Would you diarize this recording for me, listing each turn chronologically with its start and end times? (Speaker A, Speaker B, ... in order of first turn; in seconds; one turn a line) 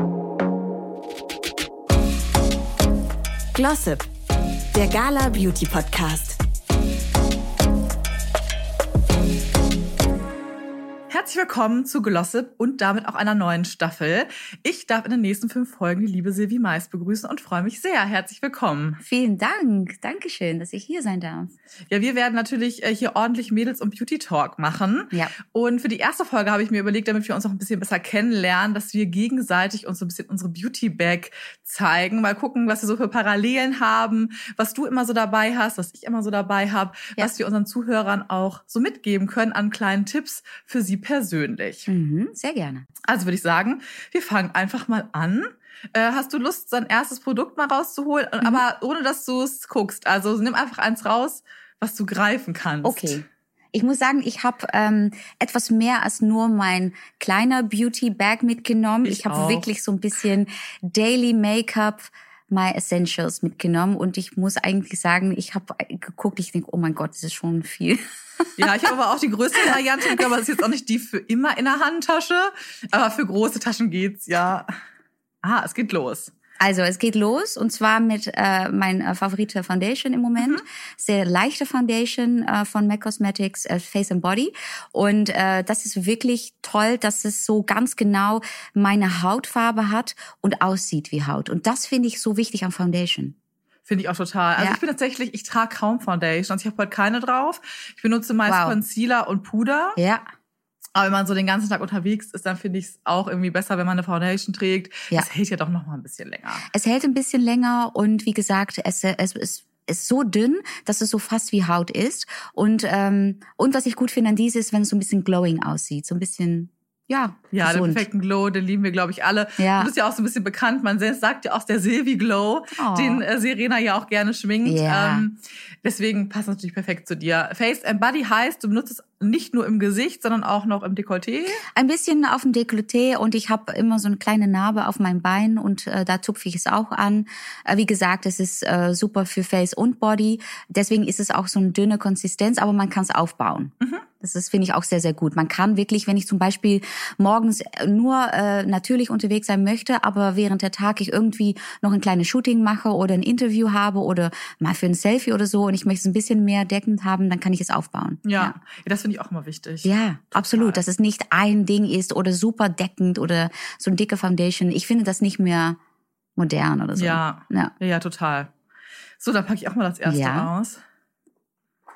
Speaker A: 3.5-4.1
Speaker A: 4.7-6.4
Speaker B: 11.1-19.0
Speaker C: 19.0-21.5
Speaker B: 21.9-41.9
Speaker C: 41.9-42.9
Speaker B: 43.0-53.2
Speaker C: 52.8-68.7
Speaker B: 59.0-59.7
Speaker B: 68.6-74.7
Speaker B: 75.4-76.3
Speaker C: 76.6-93.3
Speaker B: 80.4-80.6
Speaker B: 93.8-100.0
Speaker C: 98.5-98.8
Speaker C: 100.0-100.2
Speaker B: 100.9-106.6
Speaker C: 106.7-118.0
Speaker B: 117.5-131.6
Speaker C: 119.6-119.9
Speaker C: 122.7-123.2
Speaker C: 124.6-125.3
Speaker C: 131.7-158.5
Speaker B: 158.2-160.8
Speaker C: 159.8-165.8
Speaker C: 166.3-167.7
Speaker B: 166.9-168.5
Speaker B: 169.2-170.8
Speaker C: 170.0-170.5